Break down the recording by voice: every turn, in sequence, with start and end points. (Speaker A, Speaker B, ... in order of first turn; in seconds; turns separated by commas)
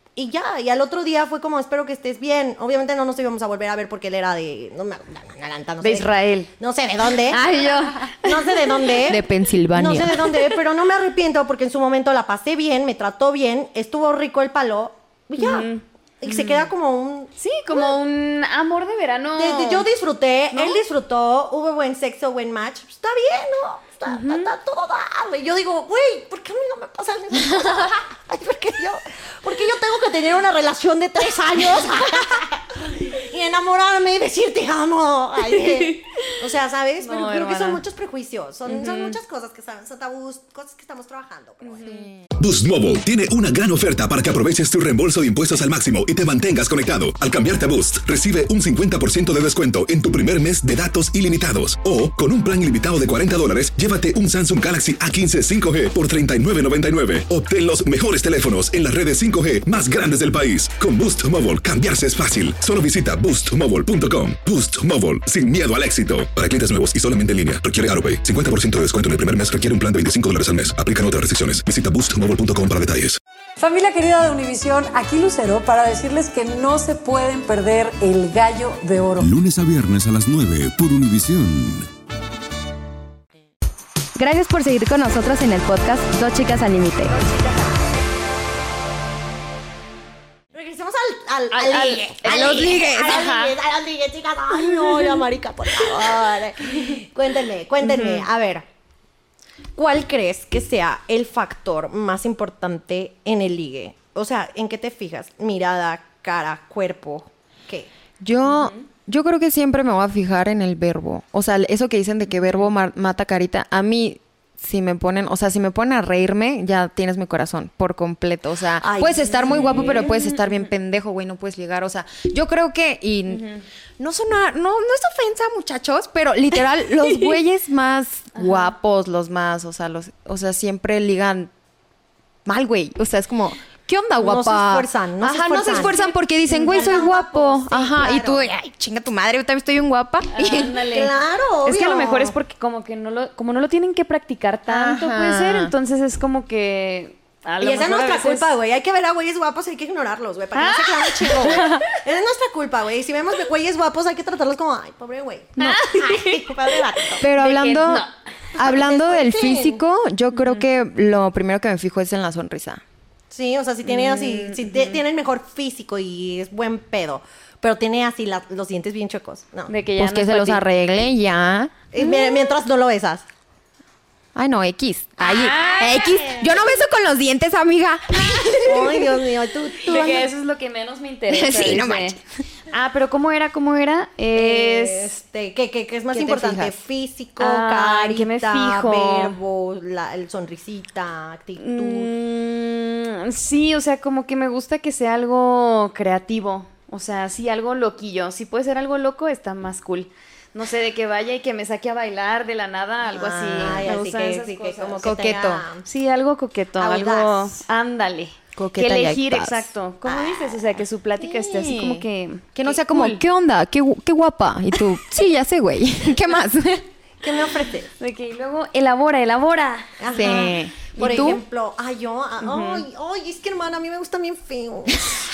Speaker A: 0.1-7.4, Speaker B: 5.8-6.5, Speaker B: 7.3-8.6, Speaker A: 8.1-15.7, Speaker C: 9.1-10.2, Speaker B: 15.4-16.7, Speaker A: 16.2-17.9, Speaker B: 17.4-19.9, Speaker A: 19.4-41.9, Speaker B: 20.5-20.8, Speaker B: 24.1-24.5, Speaker B: 35.5-36.3, Speaker B: 37.0-37.8, Speaker B: 38.7-39.2, Speaker B: 41.6-42.0, Speaker C: 41.8-42.2, Speaker D: 42.4-73.2, Speaker E: 73.6-79.3, Speaker F: 79.2-81.9, Speaker G: 84.2-87.2, Speaker A: 90.5-98.6, Speaker B: 91.5-93.5, Speaker C: 92.3-92.8, Speaker B: 94.6-95.2, Speaker B: 97.8-98.2, Speaker A: 99.7-107.9, Speaker C: 108.2-131.5, Speaker B: 108.5-108.8, Speaker A: 118.8-120.1, Speaker B: 119.5-120.7, Speaker B: 123.3-123.6, Speaker B: 128.3-128.7, Speaker C: 132.4-140.8, Speaker A: 134.2-138.4, Speaker B: 135.7-137.1, Speaker B: 140.3-141.1, Speaker A: 140.8-142.3, Speaker B: 141.6-148.5, Speaker C: 144.7-145.7, Speaker A: 147.6-157.2, Speaker B: 150.5-151.8, Speaker B: 155.6-156.4, Speaker B: 157.0-158.1, Speaker C: 157.2-158.1, Speaker A: 158.6-159.8, Speaker C: 158.6-162.8, Speaker B: 160.3-160.6, Speaker A: 163.3-169.7, Speaker B: 163.8-165.0, Speaker B: 169.7-170.6, Speaker C: 170.0-171.8, Speaker A: 171.9-173.2, Speaker B: 172.0-172.4, Speaker C: 174.3-179.1, Speaker B: 175.2-176.5, Speaker A: 178.6-180.3, Speaker B: 179.8-182.2, Speaker C: 181.3-182.2, Speaker B: 182.7-185.2, Speaker A: 184.3-192.1, Speaker C: 186.1-186.8, Speaker B: 187.4-189.3, Speaker B: 191.6-205.1, Speaker C: 203.0-203.9, Speaker A: 203.6-205.8, Speaker C: 205.0-205.6, Speaker B: 205.8-213.2, Speaker A: 206.8-207.5, Speaker C: 208.5-209.7, Speaker A: 210.0-210.6, Speaker C: 211.2-216.9, Speaker A: 217.2-217.9, Speaker B: 218.0-219.9, Speaker A: 220.0-225.2, Speaker C: 220.1-221.4, Speaker B: 220.9-221.3, Speaker B: 222.4-222.8